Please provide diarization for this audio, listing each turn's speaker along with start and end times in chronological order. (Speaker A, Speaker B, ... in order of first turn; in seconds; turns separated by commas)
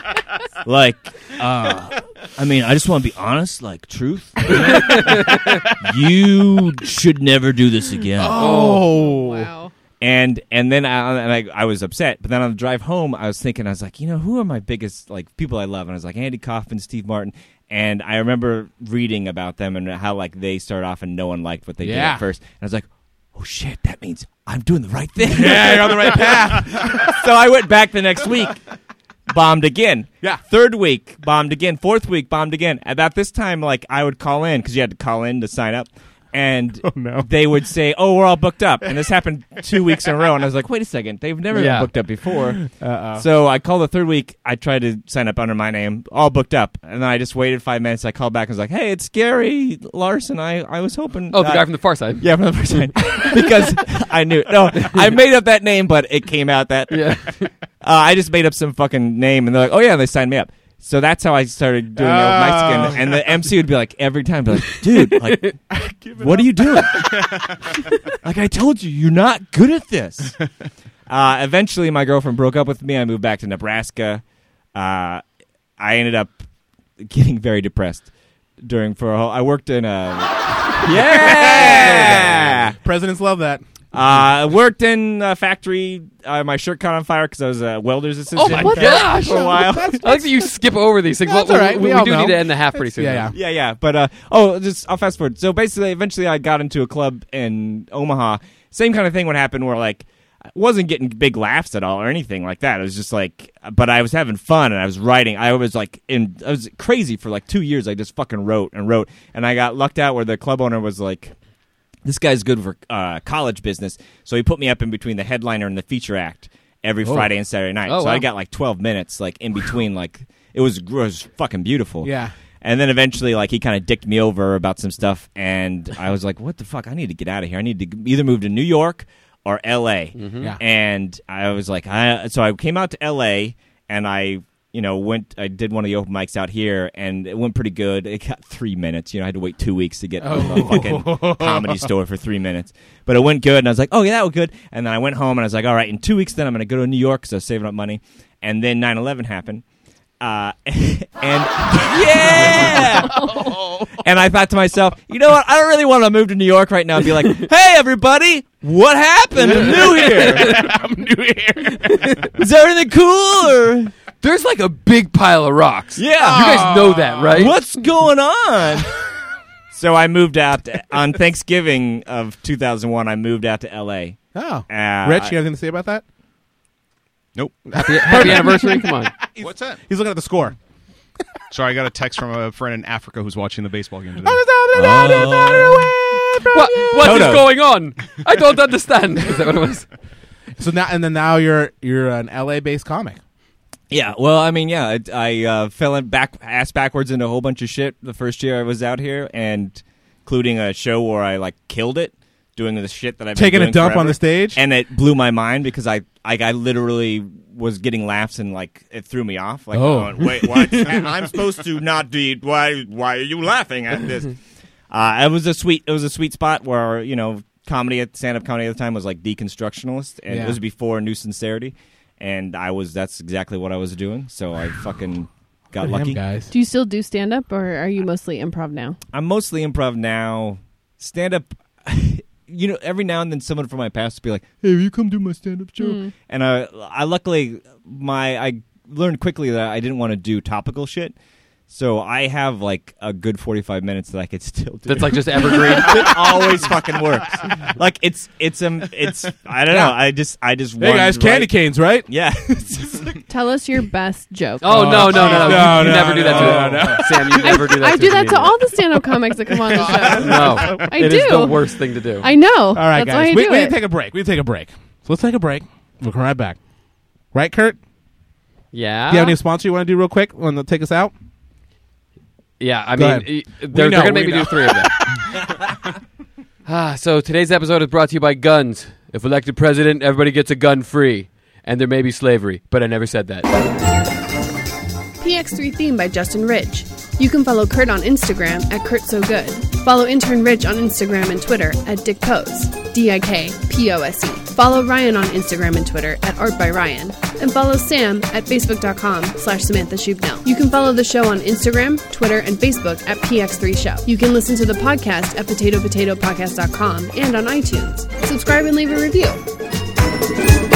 Speaker A: 0.6-8.6, Speaker B: 4.9-5.4, Speaker C: 8.2-9.5, Speaker D: 8.3-9.7, Speaker B: 8.4-8.8, Speaker A: 10.0-28.6, Speaker C: 21.8-22.2, Speaker C: 25.2-27.2, Speaker A: 29.3-42.6, Speaker C: 36.8-37.3, Speaker B: 41.5-41.9, Speaker C: 42.4-43.2, Speaker A: 43.1-67.4, Speaker B: 51.3-52.3, Speaker B: 56.9-57.5, Speaker C: 62.0-63.3, Speaker C: 65.7-67.0, Speaker A: 68.1-70.4, Speaker A: 71.1-74.2, Speaker A: 74.7-75.2, Speaker A: 75.8-76.4, Speaker A: 77.0-82.8, Speaker C: 80.8-83.6, Speaker A: 83.9-90.2, Speaker B: 88.3-93.3, Speaker C: 88.5-90.3, Speaker C: 91.2-93.3, Speaker A: 93.3-111.3, Speaker A: 112.0-149.6, Speaker B: 117.8-118.2, Speaker C: 122.0-122.3, Speaker B: 130.2-130.5, Speaker C: 140.2-141.9, Speaker A: 150.2-153.4, Speaker C: 152.3-154.0, Speaker A: 154.0-160.6, Speaker C: 159.4-162.3, Speaker B: 159.5-160.6, Speaker A: 162.3-163.9, Speaker B: 164.2-167.6, Speaker A: 165.9-166.7, Speaker C: 166.2-167.5, Speaker A: 167.3-168.9, Speaker A: 169.7-175.3, Speaker C: 174.3-176.0, Speaker E: 177.3-177.6, Speaker C: 177.7-180.6, Speaker B: 177.7-179.1, Speaker E: 179.4-179.8, Speaker E: 181.5-184.4, Speaker C: 184.2-187.4, Speaker A: 184.7-185.9, Speaker B: 186.5-189.9, Speaker A: 186.9-187.5, Speaker C: 190.6-193.2, Speaker A: 193.9-214.3, Speaker C: 203.3-204.6, Speaker C: 209.7-211.0, Speaker A: 214.9-226.2, Speaker C: 220.3-220.6, Speaker C: 225.8-226.5, Speaker D: 226.5-229.0, Speaker A: 229.1-241.2, Speaker D: 235.8-236.1, Speaker A: 241.7-253.2, Speaker B: 244.8-246.1, Speaker C: 249.7-250.0, Speaker C: 250.8-252.1, Speaker D: 253.3-255.8, Speaker B: 254.6-258.5, Speaker C: 254.7-257.5, Speaker D: 257.2-261.6, Speaker C: 259.5-260.8, Speaker B: 260.1-262.3, Speaker D: 262.2-263.8, Speaker C: 262.7-266.6, Speaker C: 267.3-267.8, Speaker B: 268.7-269.4, Speaker C: 269.1-271.1, Speaker B: 272.6-274.9, Speaker C: 272.9-275.0, Speaker B: 276.7-283.5, Speaker D: 285.2-309.4